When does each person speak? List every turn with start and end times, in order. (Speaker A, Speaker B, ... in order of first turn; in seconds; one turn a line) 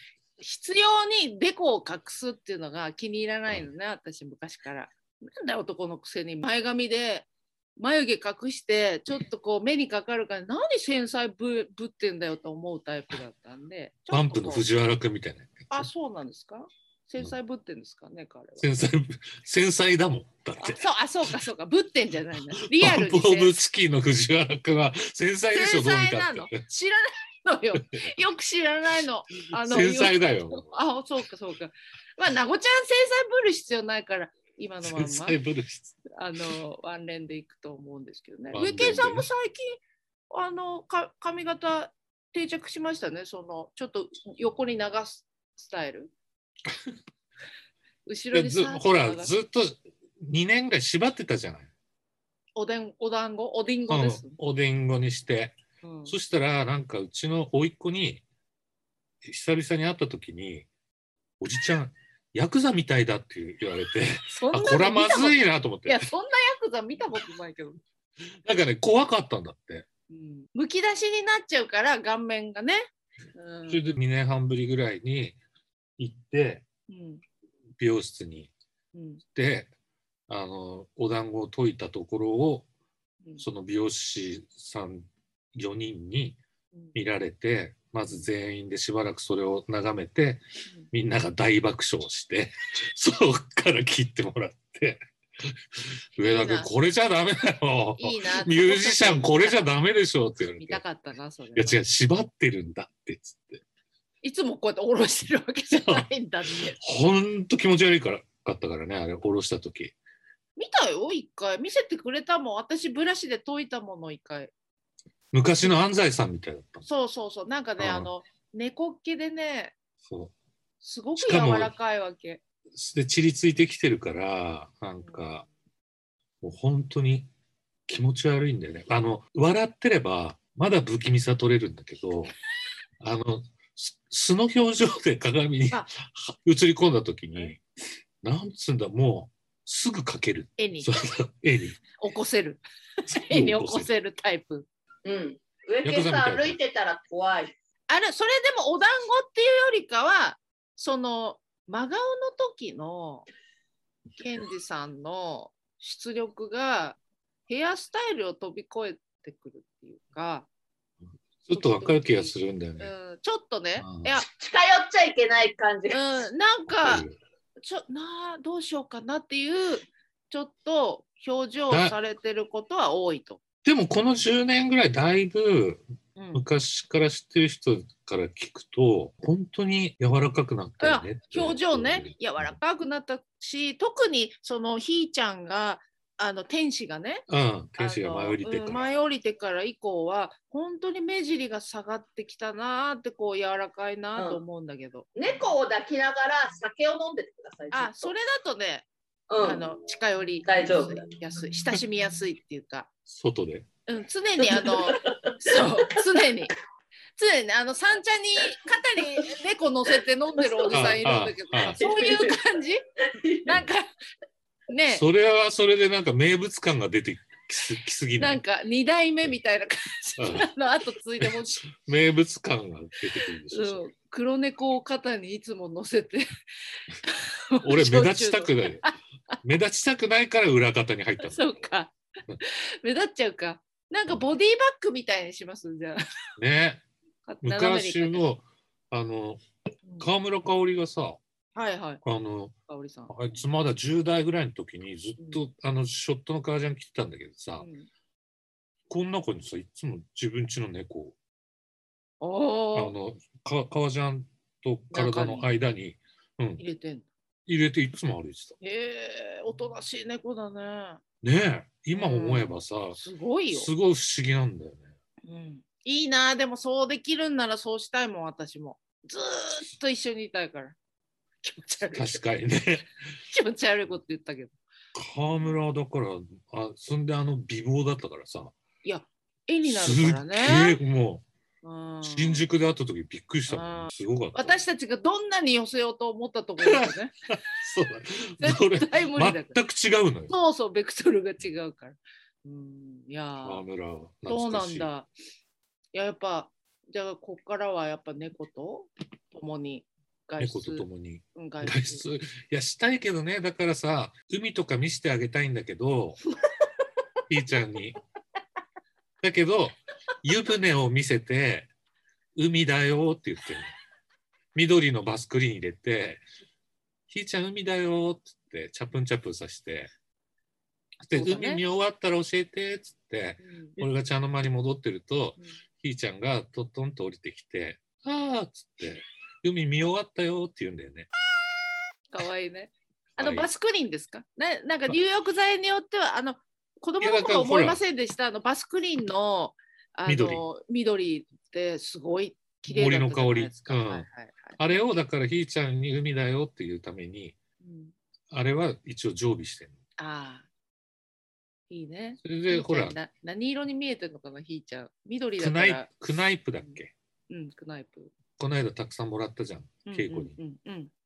Speaker A: 0.4-14.7
Speaker B: 14.1-15.9
Speaker A: 15.7-18.6
Speaker B: 18.6-20.8
Speaker A: 20.6-23.5
Speaker B: 22.6-26.6
Speaker A: 25.5-35.4
Speaker B: 27.8-28.1
Speaker B: 29.6-30.8
Speaker B: 34.8-36.0
Speaker A: 36.1-39.8
Speaker B: 38.5-39.3
Speaker A: 40.3-46.1
Speaker A: 48.1-49.3
Speaker B: 48.3-51.7
Speaker A: 52.6-54.4
Speaker B: 53.9-58.2
Speaker A: 55.8-56.1
Speaker B: 59.2-60.7
Speaker B: 61.4-66.1
Speaker A: 64.3-67.8
Speaker B: 68.4-69.9
Speaker A: 70.1-74.0
Speaker B: 73.7-75.4
Speaker B: 76.0-76.7
Speaker A: 76.9-77.2
Speaker B: 77.8-78.5
Speaker A: 78.9-79.2
Speaker B: 79.3-79.7
Speaker B: 80.3-82.7
Speaker B: 83.4-86.4
Speaker B: 87.0-100.8
Speaker A: 96.2-96.7
Speaker A: 98.0-99.7
Speaker A: 100.6-101.8
Speaker B: 101.5-103.6
Speaker A: 104.2-106.8
Speaker B: 106.8-109.9
Speaker A: 110.6-114.5
Speaker B: 115.3-116.8
Speaker A: 116.8-119.8
Speaker B: 117.8-118.1
Speaker B: 120.0-120.3
Speaker A: 120.8-122.4
Speaker B: 121.2-121.7
Speaker B: 122.7-125.5
Speaker A: 125.0-125.5
Speaker B: 126.4-127.3
Speaker B: 127.9-132.3
Speaker B: 133.0-137.6
Speaker B: 138.2-141.8
Speaker A: 140.6-141.0
Speaker A: 142.0-144.7
Speaker B: 143.1-143.9
Speaker C: 145.1-147.5
Speaker B: 145.8-146.6
Speaker A: 147.9-153.3
Speaker A: 154.2-160.5
Speaker B: 161.5-162.9
Speaker A: 161.5-164.3
Speaker B: 163.8-164.1
Speaker C: 164.3-166.0
Speaker A: 165.9-167.1
Speaker B: 166.7-167.2
Speaker A: 167.6-173.4
Speaker B: 171.7-171.9
Speaker B: 173.6-175.8
Speaker A: 176.2-176.4
Speaker B: 176.3-182.6
Speaker A: 180.8-187.2
Speaker B: 187.3-188.9
Speaker A: 187.8-195.1
Speaker C: 194.2-194.4
Speaker C: 195.2-198.1
Speaker A: 197.7-198.9
Speaker C: 199.3-199.7
Speaker A: 199.4-202.9
Speaker C: 200.4-201.0
Speaker B: 203.1-203.7
Speaker A: 203.9-206.5
Speaker C: 204.4-205.9
Speaker A: 207.2-212.8
Speaker C: 210.4-211.0
Speaker B: 210.7-211.8
Speaker C: 211.6-212.4
Speaker C: 213.1-213.5
Speaker A: 213.4-213.9
Speaker A: 214.7-215.0
Speaker B: 214.9-218.4
Speaker A: 218.2-221.7
Speaker B: 220.2-220.5
Speaker B: 221.2-223.8
Speaker A: 223.5-226.3
Speaker A: 226.9-229.4
Speaker B: 227.6-228.9
Speaker B: 229.4-231.7
Speaker A: 231.2-236.0
Speaker B: 236.4-236.8
Speaker A: 237.3-238.2
Speaker B: 237.4-239.4
Speaker B: 240.0-241.2
Speaker A: 241.6-242.0
Speaker B: 242.0-242.5
Speaker A: 242.7-243.1
Speaker B: 243.1-247.7
Speaker A: 247.6-247.9
Speaker B: 248.9-251.2
Speaker A: 252.2-252.9
Speaker B: 252.7-256.6
Speaker A: 254.9-255.5
Speaker A: 256.6-257.1
Speaker B: 257.5-258.6
Speaker A: 258.6-261.0
Speaker B: 261.2-263.0
Speaker A: 261.9-263.7
Speaker B: 263.5-264.9
Speaker A: 265.2-270.8
Speaker A: 271.4-272.2
Speaker B: 271.9-272.9
Speaker A: 273.3-274.6
Speaker B: 275.0-278.6
Speaker A: 278.8-280.8
Speaker B: 279.6-281.2
Speaker A: 281.6-282.5
Speaker B: 282.0-284.6
Speaker A: 283.5-287.4
Speaker B: 286.6-290.3
Speaker A: 288.4-289.6
Speaker A: 290.3-293.6
Speaker B: 293.4-294.9
Speaker A: 294.3-295.1
Speaker A: 295.9-302.0
Speaker B: 300.4-306.2
Speaker B: 307.3-308.0
Speaker B: 309.2-311.7
Speaker B: 312.4-313.7
Speaker B: 314.6-316.2
Speaker B: 317.1-319.9
Speaker B: 321.0-331.1
Speaker A: 321.1-321.6
Speaker A: 323.4-323.8
Speaker A: 332.1-344.8
Speaker B: 333.2-333.5
Speaker B: 337.0-337.8
Speaker B: 340.1-340.4
Speaker B: 342.7-344.1
Speaker B: 344.6-347.4
Speaker A: 347.6-347.9
Speaker B: 348.3-349.7
Speaker A: 350.0-350.5
Speaker A: 351.7-355.9
Speaker B: 352.2-353.0
Speaker B: 355.4-356.9
Speaker A: 357.3-358.1
Speaker B: 358.4-360.4
Speaker A: 359.9-360.9